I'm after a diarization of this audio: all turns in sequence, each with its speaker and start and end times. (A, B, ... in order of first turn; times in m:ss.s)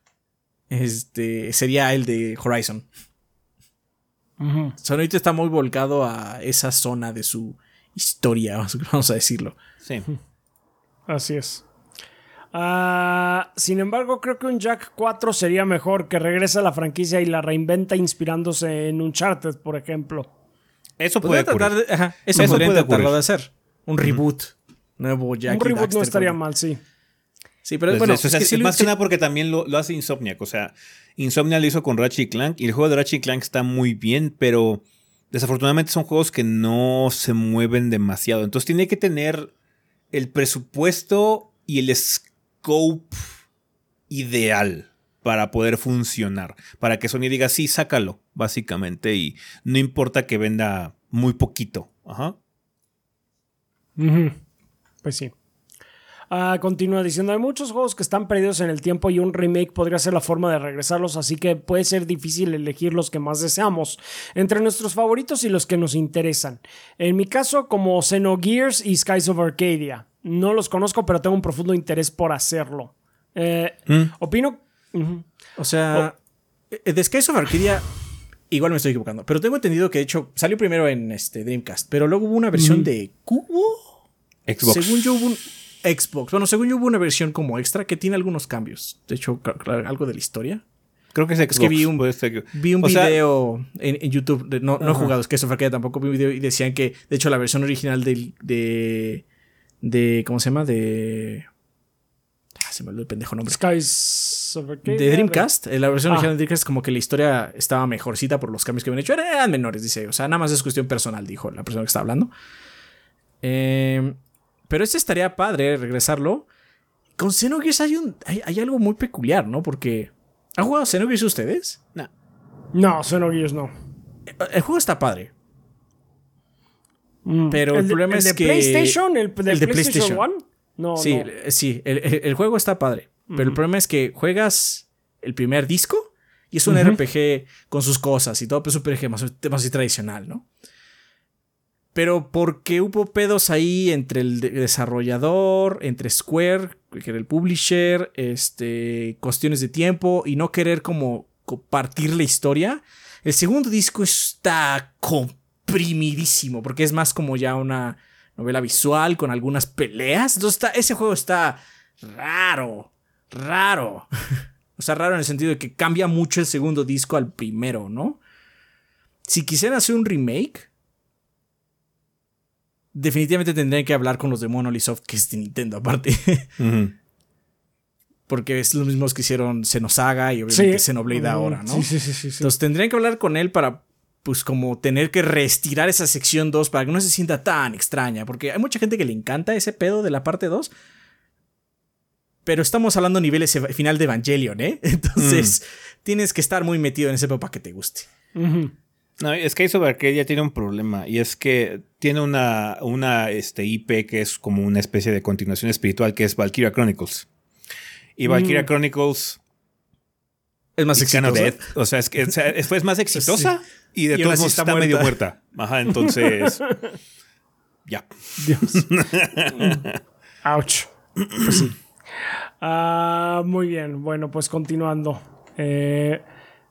0:00.7-0:02.9 A
0:04.4-0:04.7 B
0:04.8-0:09.6 A
0:11.1-0:11.6 B
0:12.5-0:20.3 B
0:21.0-0:21.8 C
0:21.2-0:26.4 A
0:22.3-0:23.2 C
0:25.5-0:26.8 B
0:27.6-0:28.9 A
0:27.9-0:39.5 C
0:40.1-0:43.3 C
0:44.1-0:52.4 C
0:54.0-0:54.3 B
0:55.0-0:55.3 B
0:56.3-1:15.2 B
1:15.6-1:16.2 A
1:16.7-1:17.9 A
1:18.5-1:23.9 A
1:22.5-1:22.9 B
1:24.5-1:25.0 C
1:24.6-1:30.6 A
1:31.1-1:33.2 C
1:31.5-1:39.2 A
1:34.8-1:35.1 C
1:39.8-1:41.4 A
1:42.6-1:43.6 A
1:43.4-1:45.5 B
1:44.9-1:52.3 A
1:53.4-1:54.2 A
1:54.7-1:56.5 A
1:57.2-2:01.8 A
2:02.7-2:03.7 B
2:04.3-2:05.3 A
2:07.2-2:11.3 B
2:07.5-2:10.2 A
2:11.0-2:20.4 A
2:13.3-2:13.6 B
2:16.7-2:17.0 B
2:21.9-2:48.2 A
2:49.2-2:50.7 A
2:52.9-2:56.5 A
2:56.6-2:56.9 C
2:58.3-3:01.9 A
3:00.5-3:02.5 B
3:02.4-3:10.7 A
3:12.4-3:18.1 A
3:15.2-3:15.5 C
3:18.3-3:18.7 B
3:19.2-3:27.3 C
3:28.2-3:29.4 C
3:28.2-3:28.7 B
3:30.8-3:31.6 A
3:30.9-3:36.6 C
3:33.1-3:33.5 A
3:34.1-3:35.2 A
3:36.0-3:36.7 B
3:37.9-3:40.0 C
3:38.4-3:38.8 B
3:39.5-3:39.8 B
3:40.4-3:41.7 B
3:41.3-3:41.6 C
3:42.6-3:46.2 B